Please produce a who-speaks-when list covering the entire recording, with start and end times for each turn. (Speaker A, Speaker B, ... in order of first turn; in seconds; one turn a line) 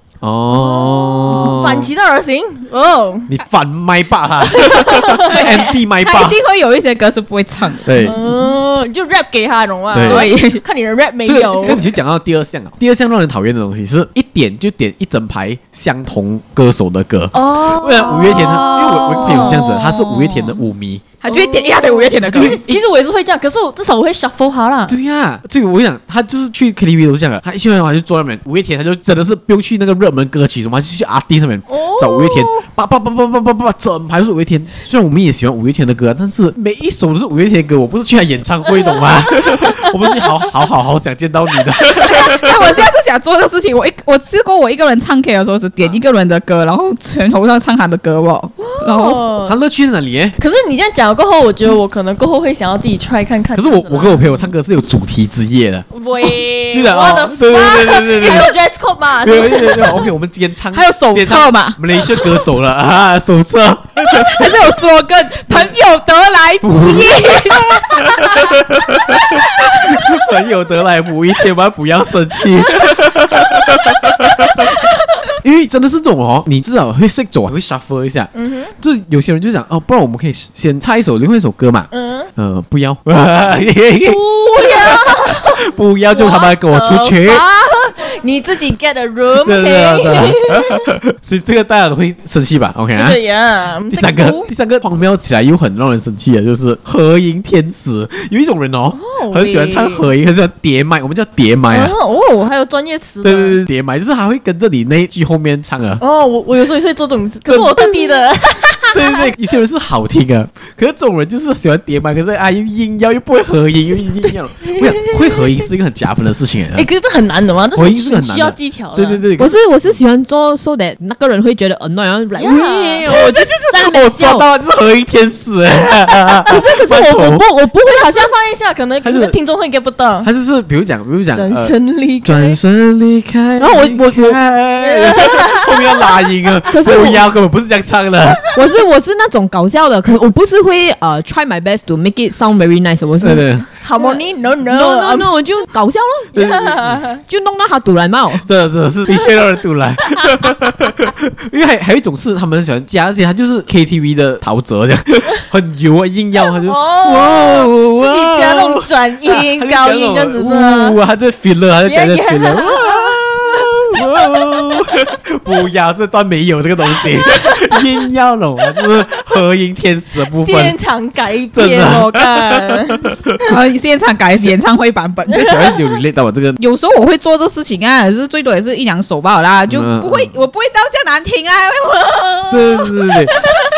Speaker A: 0.2-1.9
Speaker B: 0.5-3.3
Speaker A: 3.3-6.4
Speaker B: 4.5-5.6
Speaker C: 5.3-8.1
Speaker A: 7.8-8.2
Speaker B: 8.0-11.8
Speaker A: 9.9-10.3
Speaker C: 10.0-10.6
Speaker A: 11.2-21.1
Speaker B: 17.3-19.6
Speaker C: 18.3-20.6
Speaker C: 21.2-22.6
Speaker B: 21.3-24.9
Speaker A: 22.3-22.8
Speaker A: 24.9-42.8
Speaker B: 31.7-32.6
Speaker B: 39.2-40.3
Speaker C: 42.1-49.2
Speaker B: 48.6-49.6
Speaker A: 49.5-50.4
Speaker B: 50.4-54.5
Speaker A: 53.5-58.5
Speaker B: 55.9-60.1
Speaker A: 59.2-64.5
Speaker C: 60.7-62.2
Speaker C: 64.1-68.5
Speaker A: 66.6-74.7
Speaker C: 69.1-69.4
Speaker A: 75.4-87.4
Speaker B: 78.3-78.7
Speaker B: 81.9-82.3
Speaker B: 84.0-90.8
Speaker A: 89.4-93.2
Speaker B: 92.9-94.5
Speaker A: 93.9-102.0
Speaker B: 98.9-100.1
Speaker B: 101.7-103.6
Speaker A: 103.2-106.0
Speaker B: 106.0-109.3
Speaker A: 107.5-107.9
Speaker A: 108.9-116.9
Speaker B: 114.6-115.5
Speaker B: 116.8-119.2
Speaker A: 117.8-120.0
Speaker D: 119.4-124.5
Speaker B: 122.4-123.2
Speaker A: 123.0-127.4
Speaker D: 126.4-128.3
Speaker B: 127.8-130.3
Speaker A: 129.0-129.3
Speaker A: 130.2-138.4
Speaker B: 131.3-132.6
Speaker D: 133.6-134.4
Speaker B: 134.8-136.2
Speaker D: 136.7-137.2
Speaker D: 138.5-148.5
Speaker A: 143.2-143.7
Speaker B: 143.8-145.3
Speaker A: 146.4-146.9
Speaker B: 146.4-147.2
Speaker A: 148.4-170.8
Speaker B: 156.6-161.0
Speaker B: 161.8-163.7
Speaker B: 167.1-167.8
Speaker B: 170.3-173.5
Speaker A: 171.5-173.5
Speaker C: 173.5-175.7
Speaker A: 175.3-176.6
Speaker C: 176.6-183.5
Speaker A: 179.7-180.4
Speaker A: 182.5-183.3